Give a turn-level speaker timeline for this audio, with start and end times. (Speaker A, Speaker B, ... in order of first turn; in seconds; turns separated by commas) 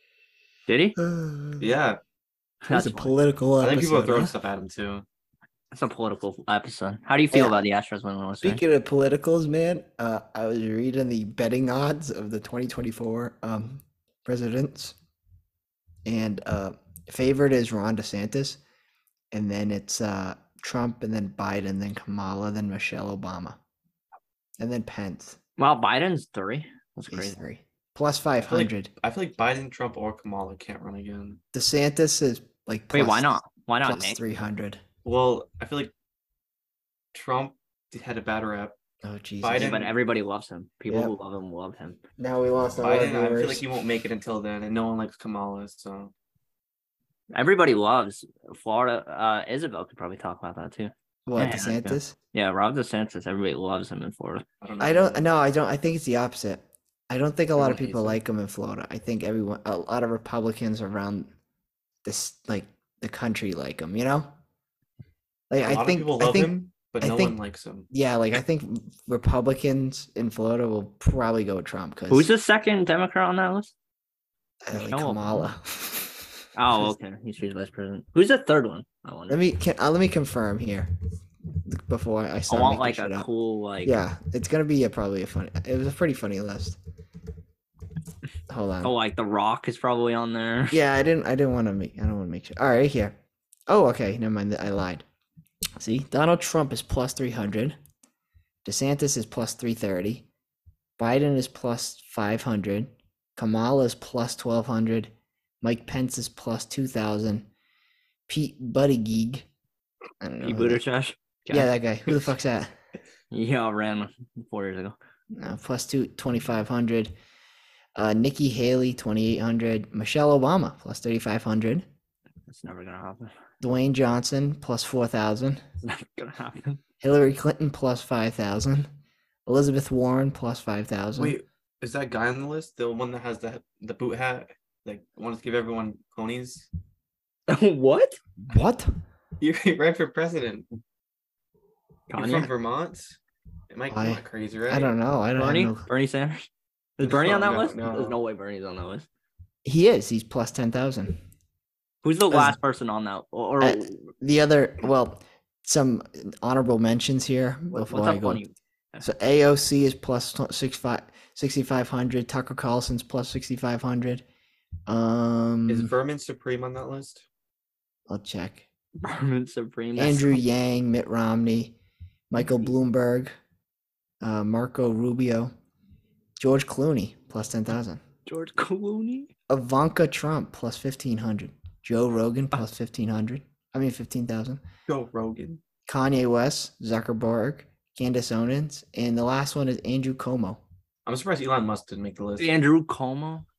Speaker A: 0.7-1.0, Speaker B: 1.0-1.6, Speaker C: 1.6-2.0, Speaker A: 2.6-3.1, Speaker B: 2.7-4.3, Speaker C: 3.6-5.0, Speaker A: 5.7-8.6, Speaker B: 8.4-15.0, Speaker B: 16.1-18.6, Speaker B: 19.3-23.6, Speaker B: 24.6-25.4, Speaker A: 25.6-27.4, Speaker B: 27.1-28.9, Speaker C: 28.4-31.4, Speaker B: 31.5-34.8, Speaker A: 32.9-34.2, Speaker C: 35.0-35.9, Speaker C: 37.1-38.8, Speaker B: 39.0-39.8, Speaker C: 39.4-39.9, Speaker A: 39.6-42.0, Speaker B: 42.2-43.6, Speaker C: 42.8-46.1, Speaker A: 47.3-54.5, Speaker B: 51.3-52.1, Speaker C: 54.6-55.3, Speaker B: 54.8-61.3, Speaker C: 57.6-58.2, Speaker B: 62.0-64.3, Speaker B: 65.5-67.4, Speaker C: 65.6-67.9, Speaker B: 67.9-72.3, Speaker A: 72.1-73.7, Speaker B: 74.6-76.3, Speaker A: 74.7-75.5, Speaker A: 76.5-79.4, Speaker B: 79.3-80.9, Speaker B: 81.7-83.3, Speaker A: 82.5-84.0, Speaker B: 83.8-86.8, Speaker B: 88.5-88.9, Speaker A: 88.8-90.8, Speaker B: 90.7-93.2, Speaker B: 93.7-95.0, Speaker B: 95.8-97.8, Speaker B: 98.7-100.3, Speaker B: 101.0-105.1, Speaker B: 105.6-107.5, Speaker B: 108.3-109.5, Speaker B: 110.2-110.8, Speaker A: 110.4-111.7, Speaker B: 111.5-112.7, Speaker A: 113.3-115.0, Speaker B: 115.3-117.1, Speaker B: 118.0-121.8, Speaker A: 122.5-123.3, Speaker B: 123.6-125.6, Speaker A: 125.8-126.8, Speaker B: 127.0-128.9, Speaker B: 129.5-131.4, Speaker C: 131.2-136.7, Speaker A: 137.5-138.2, Speaker B: 138.5-138.9, Speaker C: 139.4-140.7, Speaker A: 142.1-142.5, Speaker C: 142.2-143.2, Speaker C: 143.7-144.9, Speaker B: 143.9-145.9, Speaker A: 145.4-146.5, Speaker A: 147.0-149.1, Speaker C: 147.0-148.2, Speaker B: 149.7-151.2, Speaker A: 152.0-154.0, Speaker B: 152.3-152.6, Speaker B: 153.6-158.4, Speaker A: 157.7-159.1, Speaker B: 159.0-164.2, Speaker B: 164.9-165.9, Speaker C: 165.7-167.3, Speaker B: 168.1-168.7, Speaker A: 169.0-170.4, Speaker B: 170.0-171.8, Speaker B: 172.3-173.3, Speaker B: 174.2-175.5, Speaker B: 176.4-178.0, Speaker A: 178.3-179.3, Speaker B: 179.5-184.6, Speaker C: 184.9-185.6, Speaker B: 185.9-190.6, Speaker C: 191.1-192.5, Speaker A: 192.4-193.5